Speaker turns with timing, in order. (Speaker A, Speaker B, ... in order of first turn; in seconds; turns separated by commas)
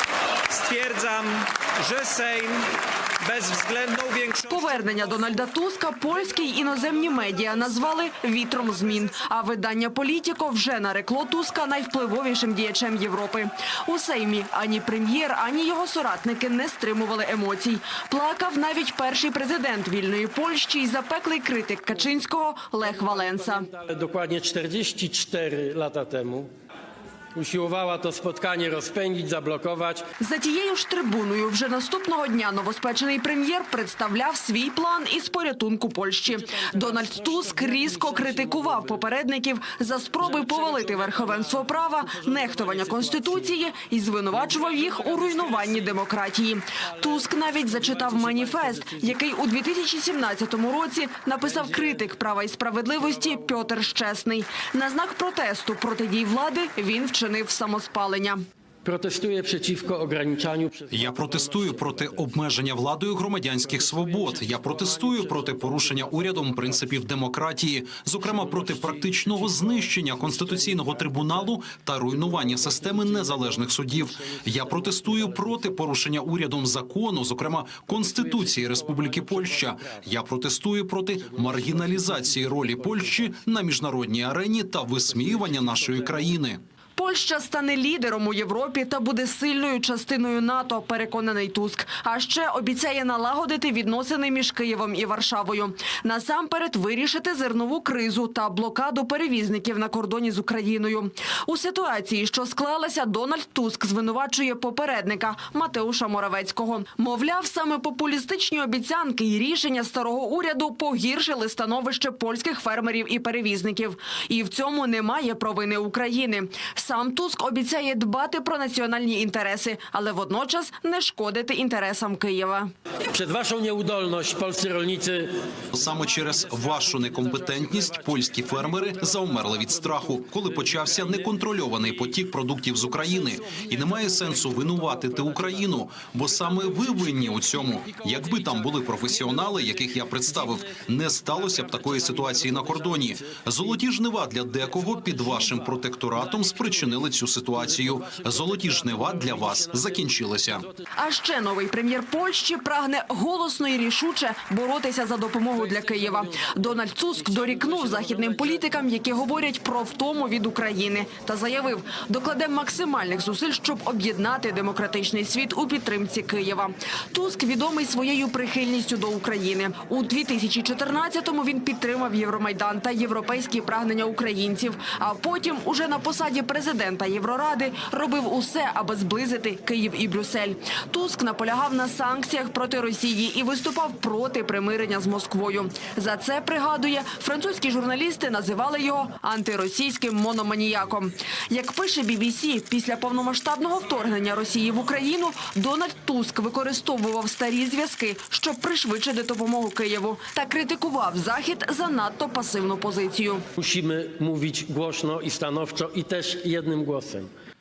Speaker A: 0.5-2.6, Speaker A: 3.2-4.9, Speaker B: 4.4-23.7, Speaker C: 22.9-26.5, Speaker C: 27.3-30.0, Speaker B: 30.2-58.4, Speaker C: 36.4-38.9, Speaker C: 40.2-43.5, Speaker C: 44.3-45.9, Speaker C: 47.0-49.1, Speaker C: 51.4-52.0, Speaker C: 58.8-62.3, Speaker D: 60.9-86.6, Speaker C: 63.6-67.1, Speaker C: 68.3-71.4, Speaker C: 72.2-75.8, Speaker C: 77.9-80.0, Speaker C: 81.2-83.3, Speaker C: 85.0-86.3, Speaker B: 87.0-122.7, Speaker C: 123.1-132.1, Speaker D: 125.7-150.7, Speaker C: 132.7-144.0, Speaker C: 144.6-150.7, Speaker B: 150.9-203.4, Speaker C: 155.7-156.3, Speaker C: 157.1-158.6, Speaker C: 203.6-207.3